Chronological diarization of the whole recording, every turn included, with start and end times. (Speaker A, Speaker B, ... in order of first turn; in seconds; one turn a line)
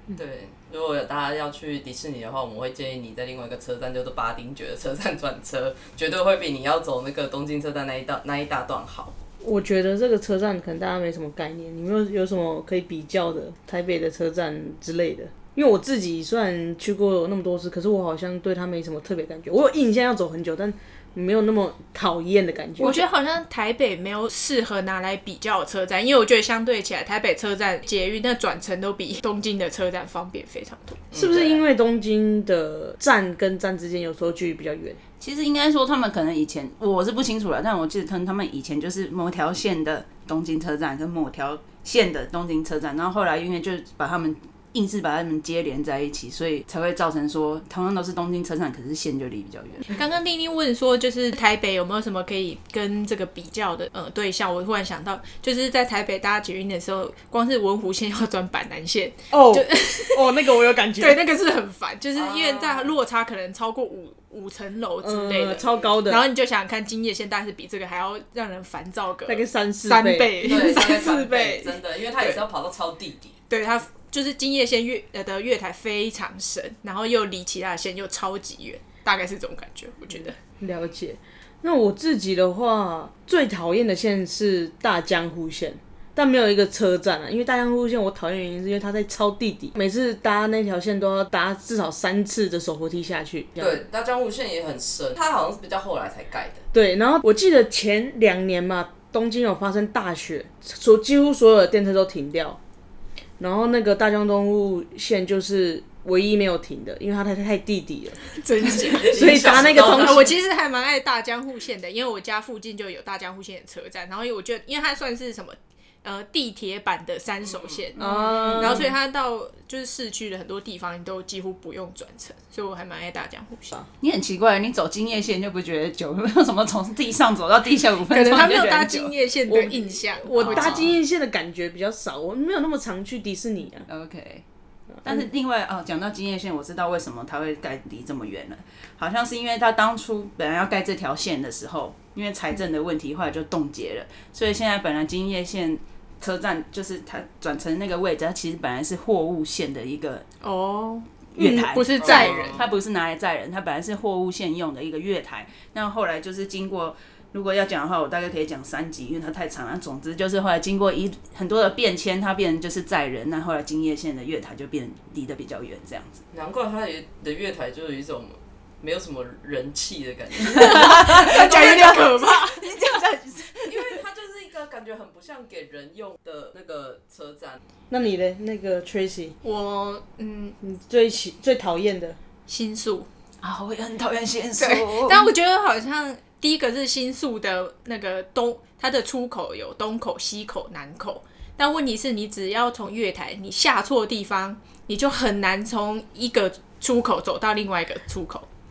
Speaker A: 0.1-9.2
Speaker B: 9.4-23.0
Speaker C: 22.8-31.0
Speaker A: 31.1-31.6
Speaker B: 31.1-35.0
Speaker D: 35.2-49.9
Speaker C: 49.9-71.8
Speaker B: 59.3-61.2
Speaker A: 62.1-62.9
Speaker B: 65.0-66.2
Speaker A: 65.6-65.8
Speaker B: 69.2-70.4
Speaker A: 70.4-73.3
Speaker C: 73.5-80.3
Speaker B: 80.1-93.8
Speaker A: 93.6-96.6
Speaker B: 96.7-102.6
Speaker B: 103.4-108.2
Speaker C: 108.3-123.7
Speaker A: 108.7-110.3
Speaker B: 109.0-110.3
Speaker A: 117.4-117.9
Speaker B: 118.0-118.9
Speaker D: 118.3-118.8
Speaker D: 124.0-129.1
Speaker C: 128.1-130.9
Speaker B: 129.5-133.9
Speaker D: 130.4-131.0
Speaker D: 133.9-134.4
Speaker D: 135.0-150.2
Speaker C: 150.4-152.6
Speaker D: 151.3-166.2
Speaker A: 152.0-152.6
Speaker A: 166.3-172.1
Speaker C: 170.5-172.6
Speaker D: 170.6-174.0
Speaker A: 173.6-177.6
Speaker B: 177.9-179.3
Speaker C: 179.4-180.6
Speaker B: 180.6-182.2
Speaker C: 182.5-183.1
Speaker D: 183.4-185.3
Speaker C: 184.6-198.5